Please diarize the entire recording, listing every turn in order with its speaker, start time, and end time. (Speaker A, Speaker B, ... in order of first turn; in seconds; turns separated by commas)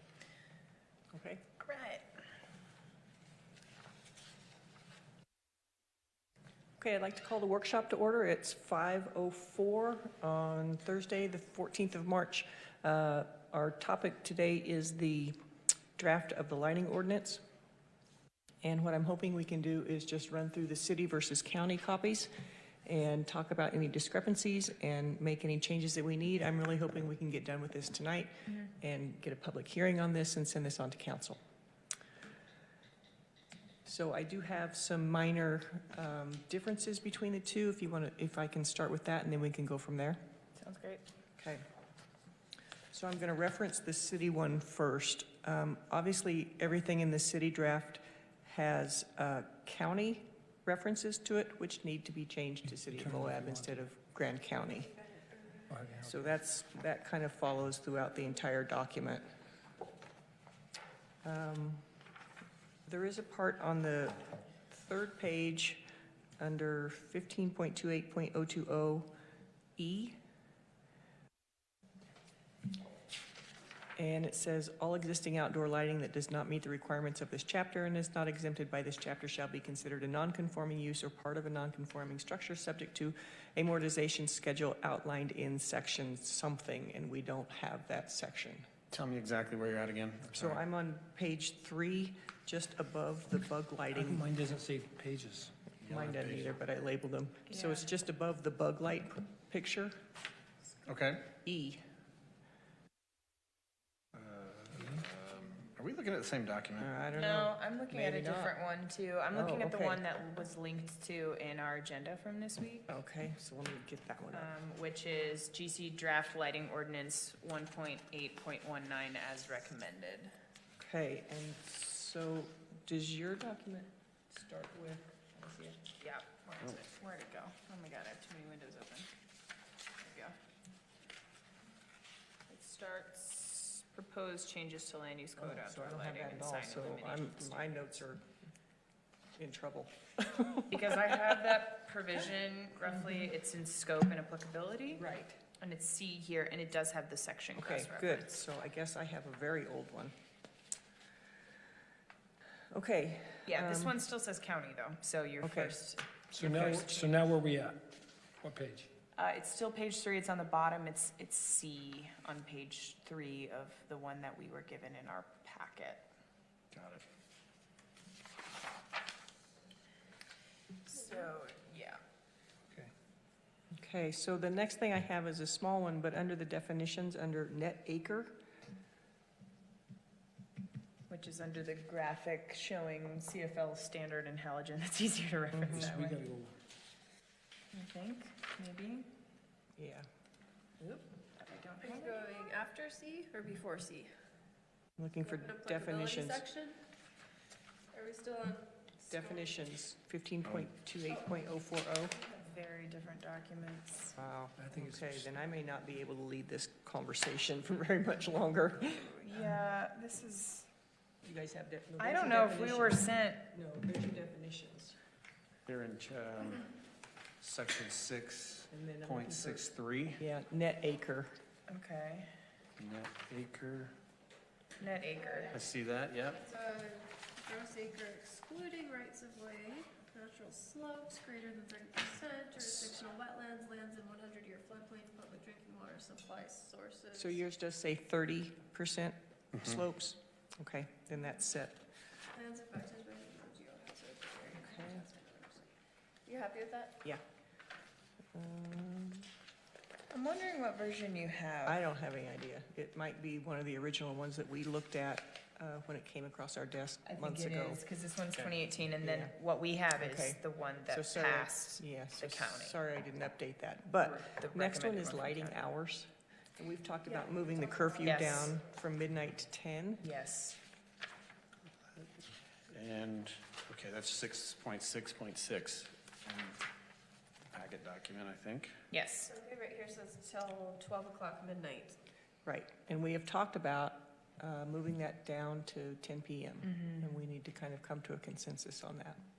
Speaker A: 1.1-1.4, Speaker B: 1.6-2.0, Speaker A: 6.8-15.3, Speaker A: 16.0-17.4, Speaker A: 18.6-22.3, Speaker A: 22.8-31.4, Speaker A: 33.8-40.2, Speaker B: 40.5-41.0, Speaker A: 41.4-41.6, Speaker A: 42.9-55.0, Speaker C: 52.9-53.8, Speaker C: 55.7-56.2, Speaker A: 56.0-59.2, Speaker A: 61.2-61.9, Speaker A: 62.9-65.8, Speaker A: 66.4-69.1, Speaker A: 69.8-70.2, Speaker A: 74.0-88.7, Speaker D: 88.9-90.6, Speaker A: 90.3-94.3, Speaker C: 93.9-95.5, Speaker D: 95.8-96.5, Speaker A: 95.8-100.0, Speaker B: 97.5-97.9, Speaker D: 100.9-101.3, Speaker A: 101.4-101.8, Speaker D: 104.1-106.9, Speaker C: 104.7-105.0, Speaker A: 106.8-108.5, Speaker B: 107.1-112.9, Speaker A: 109.3-110.0, Speaker A: 112.9-114.5, Speaker B: 114.3-120.3, Speaker A: 120.8-125.8, Speaker B: 126.0-129.1, Speaker B: 130.0-130.3, Speaker B: 132.5-137.9, Speaker A: 135.4-138.2, Speaker A: 139.4-141.2, Speaker B: 140.7-145.0, Speaker A: 144.9-145.4, Speaker B: 145.6-148.3, Speaker A: 147.6-150.1, Speaker A: 152.7-153.9, Speaker B: 153.4-156.1, Speaker A: 155.4-155.8, Speaker C: 156.3-158.9, Speaker A: 156.4-157.1, Speaker B: 159.1-166.1, Speaker D: 166.7-167.0, Speaker B: 170.8-172.0, Speaker A: 173.7-178.4, Speaker B: 181.1-186.2, Speaker A: 185.5-185.8, Speaker C: 185.7-186.5, Speaker B: 187.7-189.1, Speaker A: 189.8-190.1, Speaker B: 190.8-192.3, Speaker E: 191.8-194.1, Speaker A: 195.0-196.5, Speaker E: 195.2-196.8, Speaker E: 197.9-198.9, Speaker A: 199.1-202.2, Speaker B: 202.3-204.2, Speaker A: 204.2-209.3, Speaker C: 204.6-205.3, Speaker B: 209.2-210.7, Speaker A: 211.2-215.0, Speaker B: 212.0-213.4, Speaker D: 215.7-216.7, Speaker D: 217.4-220.2, Speaker A: 218.7-221.3, Speaker B: 221.7-222.3, Speaker D: 222.8-223.9, Speaker B: 224.8-225.5, Speaker E: 225.2-225.6, Speaker D: 225.5-226.4, Speaker E: 226.3-237.3, Speaker A: 237.1-241.8, Speaker E: 242.3-245.7, Speaker A: 244.5-245.0, Speaker E: 246.2-247.0, Speaker A: 248.3-249.3, Speaker B: 250.1-251.8, Speaker A: 251.6-257.8, Speaker B: 257.0-262.8, Speaker A: 259.0-259.3, Speaker A: 260.0-270.0, Speaker B: 264.0-265.6, Speaker E: 267.1-268.4, Speaker B: 268.0-268.5, Speaker B: 270.0-270.6, Speaker D: 272.7-276.6, Speaker D: 277.5-278.7, Speaker B: 278.9-279.3, Speaker E: 279.2-282.0, Speaker A: 282.4-289.2, Speaker B: 286.6-287.1